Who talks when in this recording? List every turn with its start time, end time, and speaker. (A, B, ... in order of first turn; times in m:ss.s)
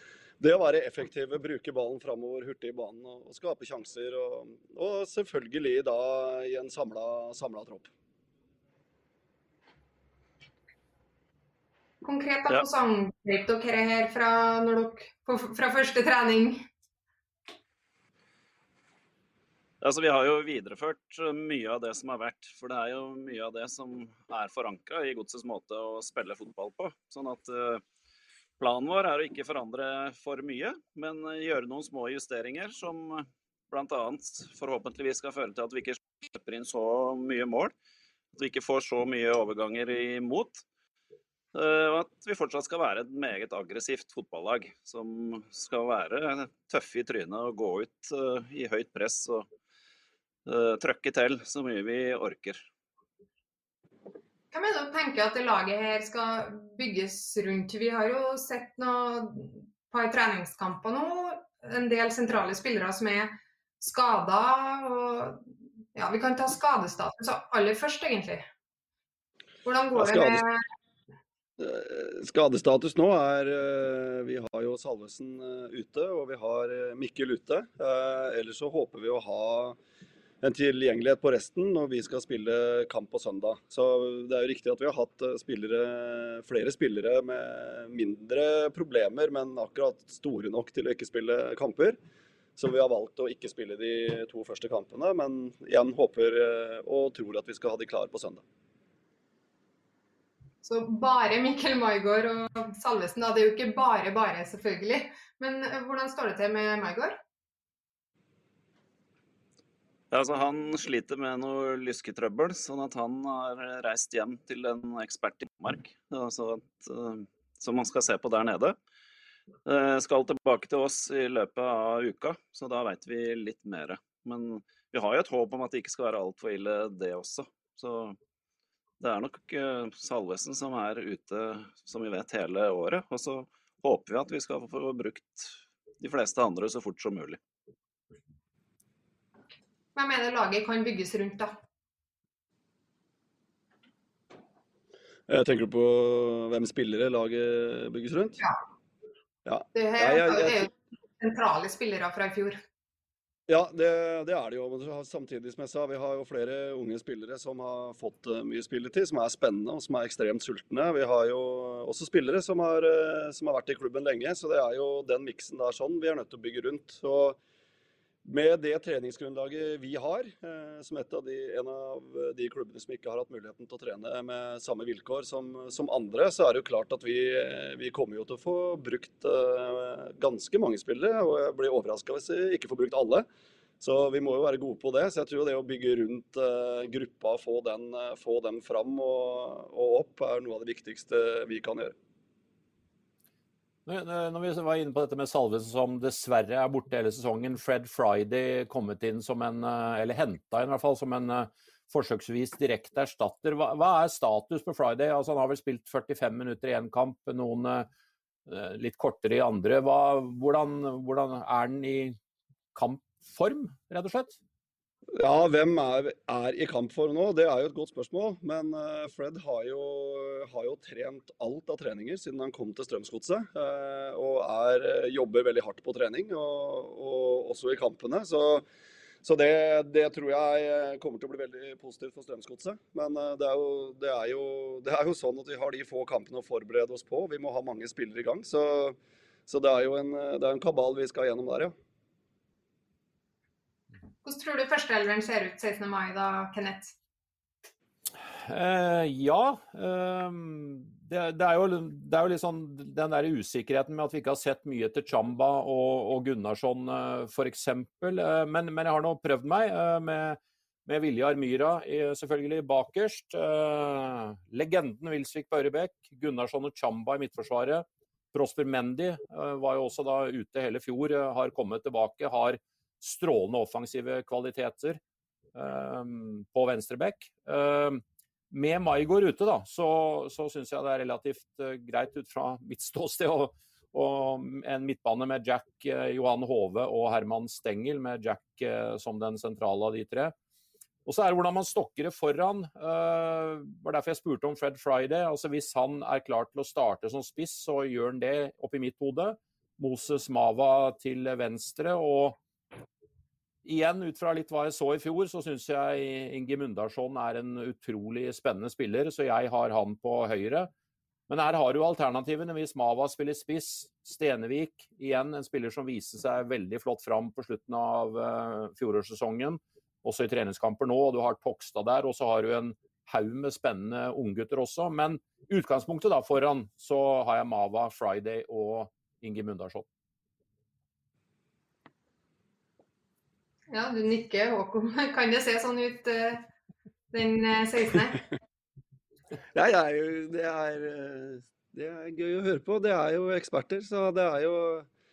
0:00.4-0:07.9 A
0:12.0-0:16.6 B
0:19.8-0:27.8 C
0:28.6-0:37.7 C
0:38.4-0:40.6 C
0:41.5-0:49.5 C
0:50.4-0:52.6 C
0:54.5-1:05.4 B
1:05.9-1:08.5 B
1:09.6-1:10.6 B
1:10.0-1:10.4 A
1:11.6-1:19.8 A
1:20.4-1:32.0 A
1:32.6-1:38.4 A
1:40.6-1:47.2 B
1:50.1-1:58.8 C
1:59.6-2:08.2 C
2:09.0-2:17.4 C
2:19.9-2:21.5 B
2:25.3-2:28.4 A
2:29.4-2:30.7 A
2:29.7-2:32.6 B
2:33.5-2:47.4 A
2:48.2-3:03.2 A
3:03.8-3:11.9 A
3:13.8-3:27.9 D
3:28.5-3:32.2 D
3:32.7-3:34.4 D
3:35.2-3:48.6 A
3:49.2-4:01.7 A
4:04.2-4:06.9 B
4:08.4-4:35.0 D
4:35.5-4:50.3 D
4:51.0-5:02.4 D
5:03.6-5:10.7 D
5:11.3-5:29.8 D
5:33.7-5:36.4 B
5:37.1-5:38.2 B
5:39.5-5:44.9 A